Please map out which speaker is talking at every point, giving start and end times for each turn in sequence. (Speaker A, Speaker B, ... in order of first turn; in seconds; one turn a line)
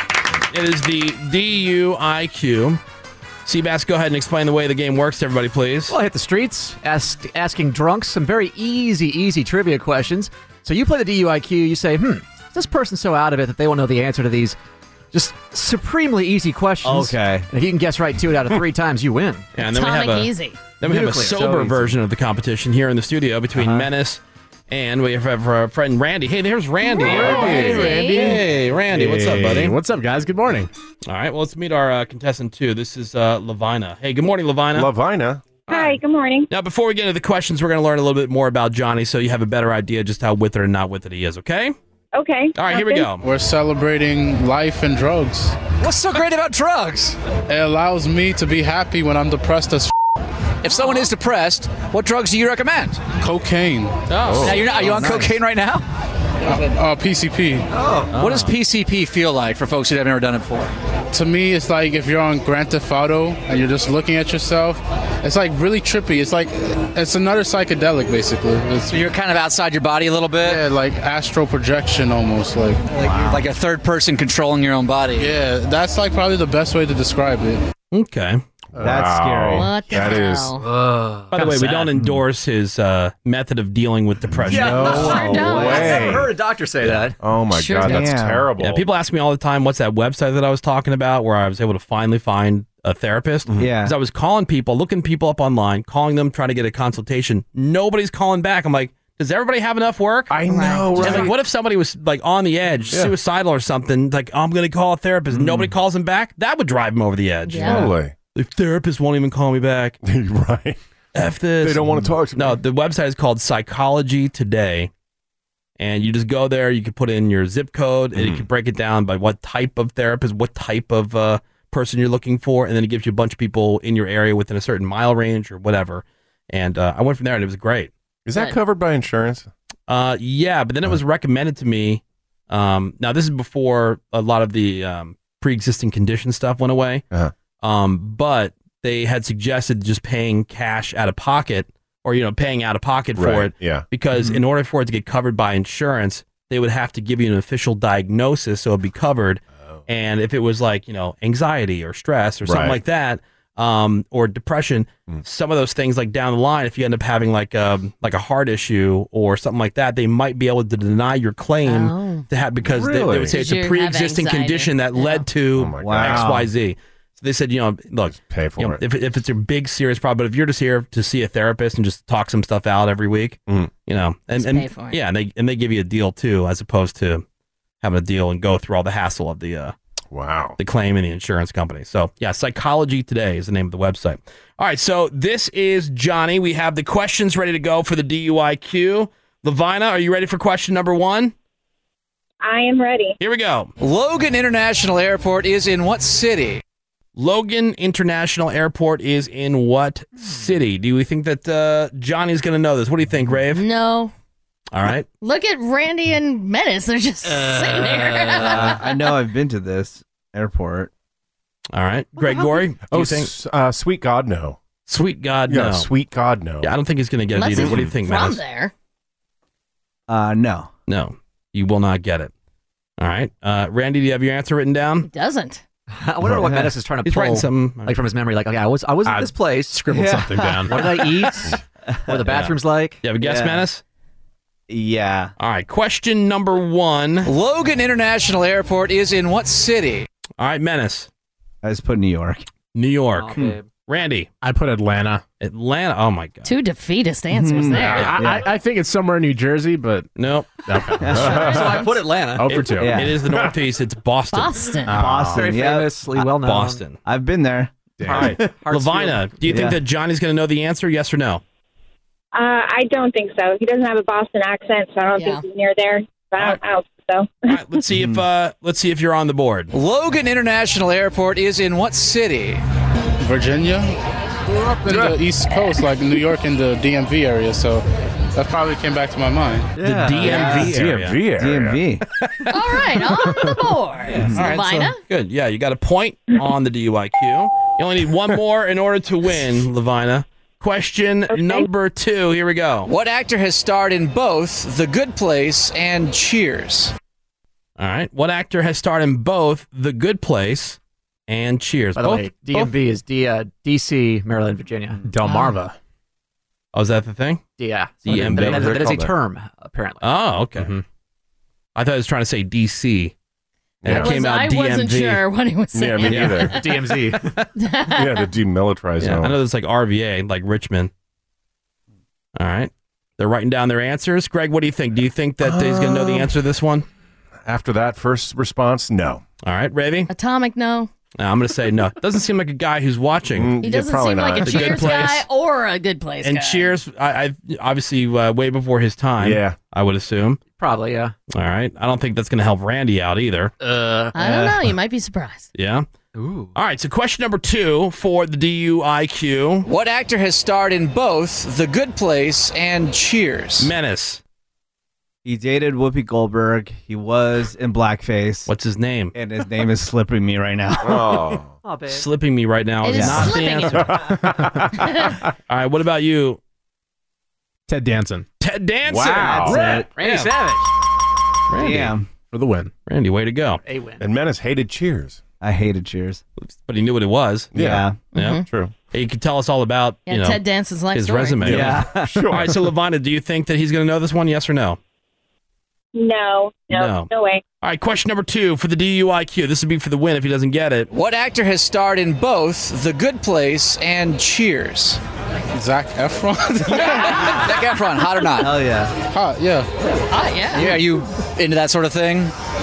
Speaker A: 0.5-2.8
Speaker A: 3.5-6.0
Speaker B: 5.9-14.6
Speaker B: 15.1-19.4
Speaker C: 16.8-17.5
Speaker A: 19.6-29.8
Speaker D: 19.6-20.7
Speaker B: 20.8-21.8
Speaker D: 26.8-28.4
Speaker E: 27.0-28.0
Speaker F: 28.9-30.7
Speaker A: 31.1-34.9
Speaker E: 34.7-35.5
Speaker G: 35.7-36.5
Speaker A: 35.7-41.7
Speaker G: 42.1-42.6
Speaker A: 42.5-43.2
Speaker H: 43.2-45.6
Speaker I: 45.8-47.1
Speaker H: 47.5-49.9
Speaker I: 50.6-53.0
Speaker D: 50.7-51.0
Speaker H: 53.2-54.0
Speaker A: 54.1-54.8
Speaker E: 54.2-54.7
Speaker I: 54.4-55.8
Speaker B: 54.7-55.8
Speaker C: 54.8-55.4
Speaker H: 56.4-57.7
Speaker B: 57.7-58.1
Speaker A: 58.1-58.5
Speaker I: 58.1-60.7
Speaker H: 61.1-69.1
Speaker I: 68.9-70.6
Speaker H: 70.4-72.8
Speaker C: 72.9-73.5
Speaker I: 73.0-75.3
Speaker H: 75.2-77.6
Speaker A: 77.9-78.4
Speaker E: 78.7-80.5
Speaker C: 78.8-79.7
Speaker D: 79.5-80.7
Speaker B: 81.3-81.9
Speaker A: 81.3-85.2
Speaker E: 84.3-86.3
Speaker C: 84.5-86.2
Speaker B: 84.5-87.1
Speaker D: 84.9-86.0
Speaker E: 87.2-88.8
Speaker D: 87.5-88.0
Speaker C: 87.8-88.5
Speaker A: 88.6-100.4
Speaker C: 93.6-93.9
Speaker E: 100.3-101.3
Speaker D: 100.5-101.3
Speaker A: 100.9-110.0
Speaker E: 105.3-105.7
Speaker D: 107.5-107.9
Speaker E: 107.5-108.1
Speaker E: 110.0-110.8
Speaker A: 111.1-114.9
Speaker E: 111.6-112.6
Speaker A: 115.8-127.9
Speaker E: 118.1-118.5
Speaker E: 128.2-129.5
Speaker A: 129.9-137.0
Speaker A: 137.6-177.2
Speaker E: 143.2-143.8
Speaker E: 152.4-152.8
Speaker D: 161.7-162.2
Speaker E: 162.7-163.3
Speaker D: 163.3-165.3
Speaker E: 165.5-166.4
Speaker C: 165.8-166.4
Speaker E: 168.1-168.8
Speaker D: 174.3-175.0
Speaker A: 177.8-179.7
Speaker E: 180.1-180.6
Speaker A: 180.6-191.3
Speaker G: 192.4-193.2
Speaker A: 193.2-193.7
Speaker I: 193.8-196.6
Speaker A: 197.2-203.6
Speaker D: 203.5-204.1
Speaker A: 204.7-205.1
Speaker D: 205.2-208.9
Speaker C: 208.4-210.9
Speaker A: 211.7-213.3
Speaker B: 212.3-212.6
Speaker E: 212.9-214.6
Speaker A: 214.9-215.9
Speaker E: 215.5-216.7
Speaker A: 216.6-218.4
Speaker D: 217.3-218.7
Speaker E: 217.5-217.9
Speaker C: 220.1-220.7
Speaker A: 220.9-222.3
Speaker A: 223.0-225.1
Speaker D: 225.0-225.6
Speaker B: 225.9-229.9
Speaker A: 227.0-228.0
Speaker F: 229.1-231.4
Speaker C: 229.9-230.6
Speaker B: 230.7-233.1
Speaker C: 231.9-232.2
Speaker A: 232.3-233.8
Speaker C: 233.2-233.6
Speaker C: 234.7-235.3
Speaker A: 235.4-237.3
Speaker I: 237.2-240.1
Speaker A: 240.4-241.1
Speaker C: 241.6-242.4
Speaker A: 242.7-244.3
Speaker B: 243.1-243.7
Speaker F: 244.4-245.2
Speaker A: 245.4-246.5
Speaker D: 246.4-248.1
Speaker C: 247.3-248.5
Speaker F: 247.8-250.1
Speaker A: 250.2-250.5
Speaker F: 250.7-253.0
Speaker C: 251.0-251.4
Speaker B: 251.2-252.6
Speaker E: 251.2-251.6
Speaker A: 252.5-254.8
Speaker C: 252.8-253.2
Speaker D: 254.3-255.0
Speaker F: 254.8-255.4
Speaker C: 254.9-256.1
Speaker B: 255.3-256.9
Speaker A: 256.2-257.0
Speaker C: 257.0-258.5
Speaker E: 258.0-258.3
Speaker B: 258.1-259.7
Speaker A: 258.2-261.4
Speaker C: 259.5-259.8
Speaker G: 262.3-267.6
Speaker D: 265.1-265.4
Speaker A: 267.5-269.7
Speaker C: 267.9-268.2
Speaker I: 269.7-272.6
Speaker H: 273.2-273.9
Speaker H: 274.8-277.8
Speaker H: 278.3-279.7
Speaker B: 279.8-280.6
Speaker A: 279.8-281.2
Speaker E: 280.2-281.8
Speaker C: 280.3-280.7
Speaker C: 281.4-282.0
Speaker D: 282.5-285.0
Speaker B: 284.1-284.4
Speaker C: 284.1-284.6
Speaker A: 284.4-292.9
Speaker G: 291.3-291.7
Speaker I: 292.9-296.9
Speaker A: 297.8-302.5
Speaker B: 301.9-305.1
Speaker F: 305.0-305.7
Speaker D: 305.2-305.5
Speaker A: 306.7-307.4
Speaker B: 307.6-310.1
Speaker A: 308.1-309.0
Speaker E: 308.1-309.1
Speaker A: 310.0-310.8
Speaker A: 311.8-313.1
Speaker E: 313.8-314.1
Speaker A: 313.8-315.2
Speaker D: 313.9-317.0
Speaker E: 315.7-316.6
Speaker A: 316.1-316.5
Speaker B: 316.6-317.2
Speaker D: 317.6-318.2
Speaker E: 317.9-319.4
Speaker A: 319.0-320.9
Speaker A: 322.4-326.9
Speaker E: 325.4-326.3
Speaker E: 327.4-329.2
Speaker A: 329.4-330.1
Speaker D: 330.1-330.9
Speaker A: 331.2-333.6
Speaker E: 333.3-335.1
Speaker D: 333.6-336.7
Speaker A: 334.4-335.2
Speaker A: 336.2-340.4
Speaker E: 339.2-339.6
Speaker B: 340.6-341.1
Speaker A: 341.3-343.5
Speaker B: 343.6-344.1
Speaker D: 344.1-345.5
Speaker A: 345.5-345.9
Speaker B: 346.1-346.5
Speaker A: 346.5-349.7
Speaker I: 349.6-353.7
Speaker A: 353.6-354.2
Speaker C: 355.2-358.5
Speaker A: 358.5-359.1
Speaker C: 359.1-361.2
Speaker E: 360.8-361.5
Speaker B: 361.6-362.1
Speaker A: 361.9-364.1
Speaker D: 362.8-363.9
Speaker C: 362.9-363.3
Speaker E: 363.7-365.1
Speaker D: 364.8-365.1
Speaker A: 365.5-366.4
Speaker F: 367.7-368.2
Speaker A: 368.4-370.4
Speaker E: 368.8-369.8
Speaker C: 369.2-369.9
Speaker B: 369.5-370.7
Speaker A: 371.5-371.9
Speaker C: 371.6-372.1
Speaker F: 372.3-372.7
Speaker A: 372.9-373.6
Speaker B: 373.6-374.1
Speaker E: 374.0-375.2
Speaker C: 375.4-376.2
Speaker A: 376.4-377.6
Speaker E: 377.5-377.8
Speaker C: 377.6-378.1
Speaker D: 378.1-378.4
Speaker A: 378.1-380.4
Speaker D: 380.1-381.6
Speaker A: 380.9-384.8
Speaker E: 381.4-382.6
Speaker C: 381.4-382.3
Speaker G: 385.9-387.4
Speaker A: 386.7-387.1
Speaker A: 387.6-390.9
Speaker I: 390.9-395.0
Speaker H: 395.5-397.2
Speaker C: 396.8-397.5
Speaker I: 397.2-398.5
Speaker C: 398.4-398.9
Speaker H: 399.1-399.7
Speaker D: 400.1-400.8
Speaker I: 400.5-402.3